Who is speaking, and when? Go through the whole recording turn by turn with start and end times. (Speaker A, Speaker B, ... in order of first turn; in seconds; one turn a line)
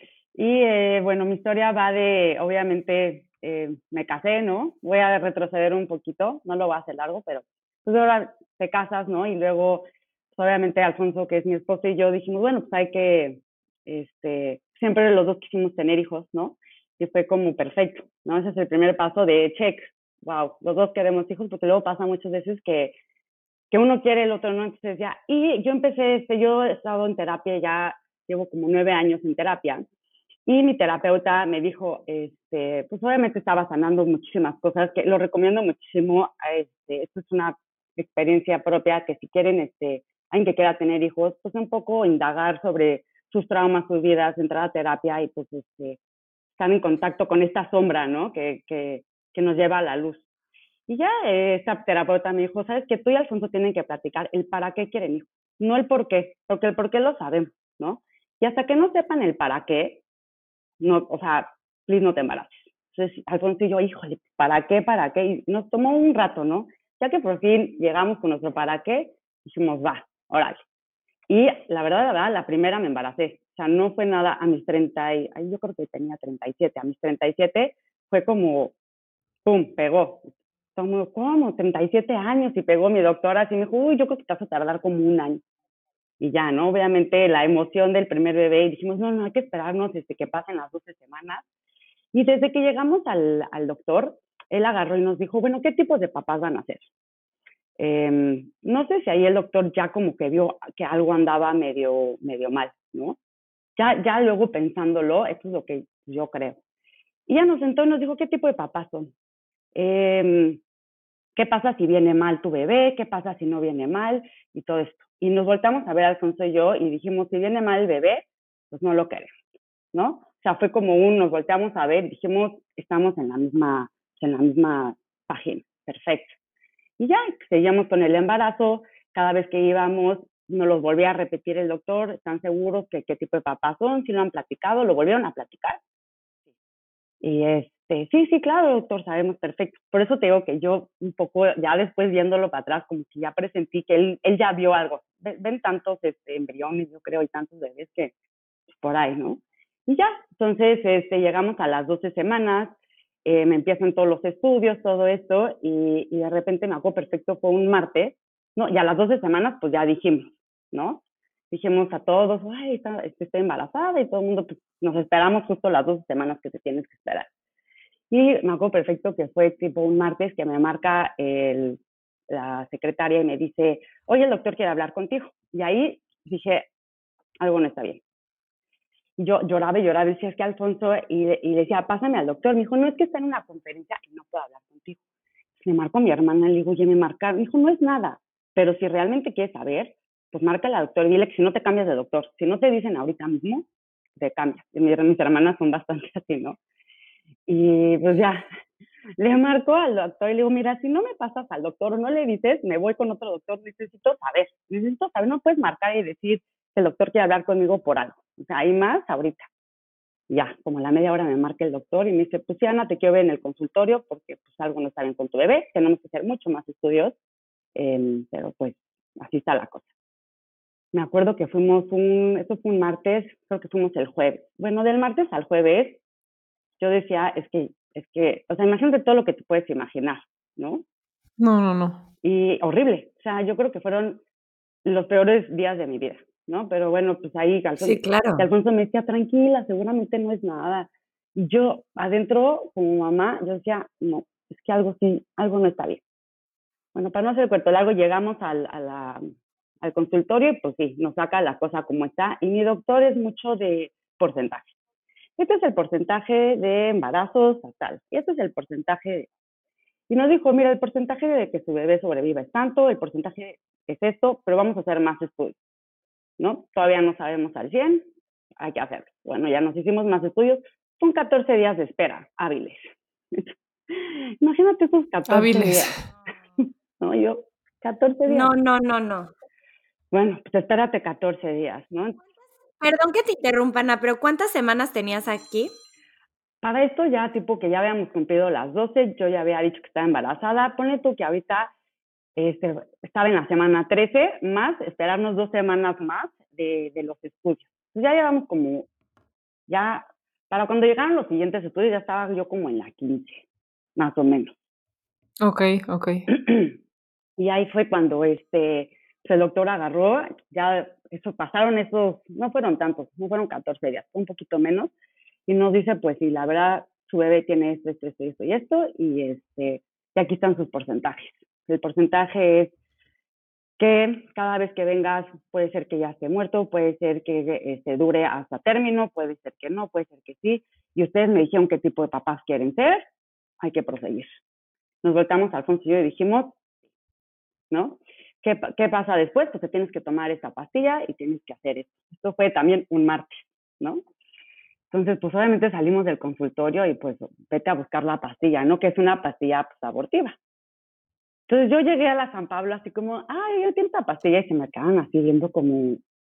Speaker A: 0.3-22.9
Speaker A: 23.7-29.9
Speaker A: 30.4-46.0
Speaker A: 46.6-50.2
Speaker A: 50.9-60.0
Speaker A: 60.8-70.6
Speaker A: 71.3-78.7
Speaker A: 79.4-85.4
Speaker A: 86.2-91.4
Speaker A: 92.1-96.8
Speaker A: 97.8-103.2
Speaker A: 103.8-106.6
Speaker A: 107.3-109.1
Speaker A: 109.7-110.6
Speaker A: 111.3-119.3
Speaker A: 119.9-126.4
Speaker A: 127.0-135.8
Speaker A: 137.2-148.1
Speaker A: 148.7-167.3
Speaker A: 168.1-176.7
Speaker A: 177.4-178.0
Speaker A: 179.2-185.0
Speaker A: 185.6-196.6
Speaker A: 197.5-198.4
Speaker A: 199.2-209.5
Speaker A: 210.3-217.2
Speaker A: 217.8-219.9
Speaker A: 220.9-226.0
Speaker A: 226.8-230.8
Speaker B: 231.4-232.1
Speaker A: 232.2-234.2
Speaker A: 234.8-246.0
Speaker C: 237.8-238.4
Speaker A: 246.9-249.2
Speaker A: 249.8-254.8
Speaker A: 255.4-259.3
Speaker A: 260.1-265.6
Speaker A: 266.4-268.1
Speaker A: 268.6-276.0
Speaker B: 275.3-275.9
Speaker A: 276.6-278.5
Speaker C: 278.3-279.3
Speaker A: 280.1-282.2
Speaker C: 282.8-285.7
Speaker A: 286.6-291.7
Speaker A: 292.4-298.9
Speaker A: 299.7-304.5
Speaker B: 305.4-306.3
Speaker A: 306.3-306.8
Speaker A: 307.4-314.9
Speaker A: 315.5-322.7
Speaker A: 323.8-333.1
Speaker A: 333.6-334.4
Speaker A: 335.0-336.6
Speaker A: 337.7-344.0
Speaker A: 344.9-350.4
Speaker A: 351.5-356.0